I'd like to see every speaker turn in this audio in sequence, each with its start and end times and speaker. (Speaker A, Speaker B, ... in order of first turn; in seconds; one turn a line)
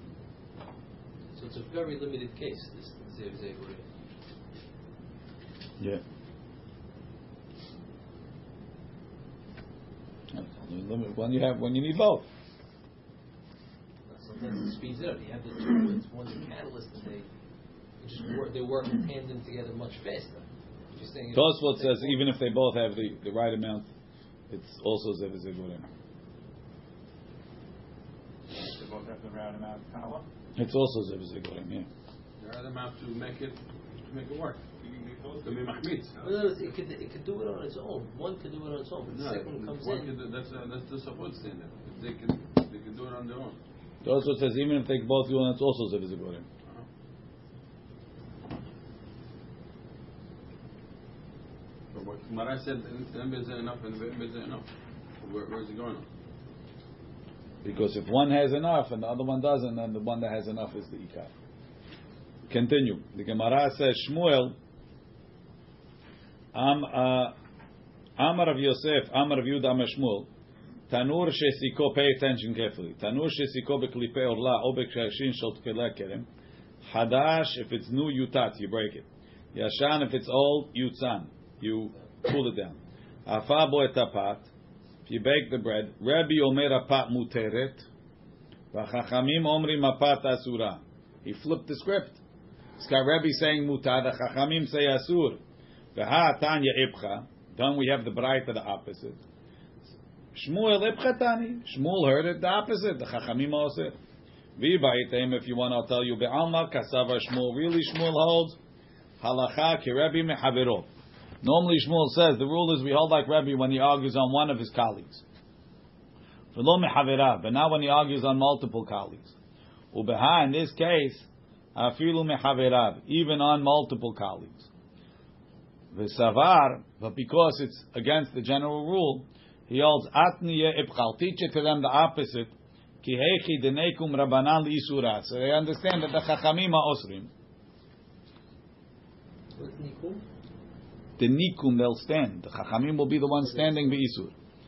Speaker A: 1.3-3.9
Speaker B: 10.3-12.3
Speaker A: 14.1-17.3
Speaker A: 18.0-22.2
Speaker B: 21.3-23.9
Speaker B: 24.5-25.9
Speaker C: 28.6-30.2
Speaker B: 30.6-31.9
Speaker D: 32.4-34.6
Speaker C: 34.8-36.4
Speaker D: 35.4-36.2
Speaker A: 36.2-40.1
Speaker D: 39.1-43.6
Speaker B: 44.0-46.5
Speaker D: 51.9-54.7
Speaker D: 55.2-56.1
Speaker B: 57.6-61.3
Speaker B: 62.5-64.6
Speaker B: 66.5-67.3
Speaker B: 68.2-70.3
Speaker B: 70.9-76.3
Speaker B: 76.8-84.5
Speaker B: 85.1-87.9
Speaker B: 88.7-92.2
Speaker B: 92.8-95.4
Speaker B: 96.0-99.2
Speaker B: 100.3-104.0
Speaker B: 104.6-108.6
Speaker B: 109.2-110.9
Speaker B: 111.4-115.2
Speaker B: 116.5-119.3
Speaker B: 119.9-124.7
Speaker B: 125.9-137.3
Speaker A: 139.6-140.2
Speaker B: 141.2-144.3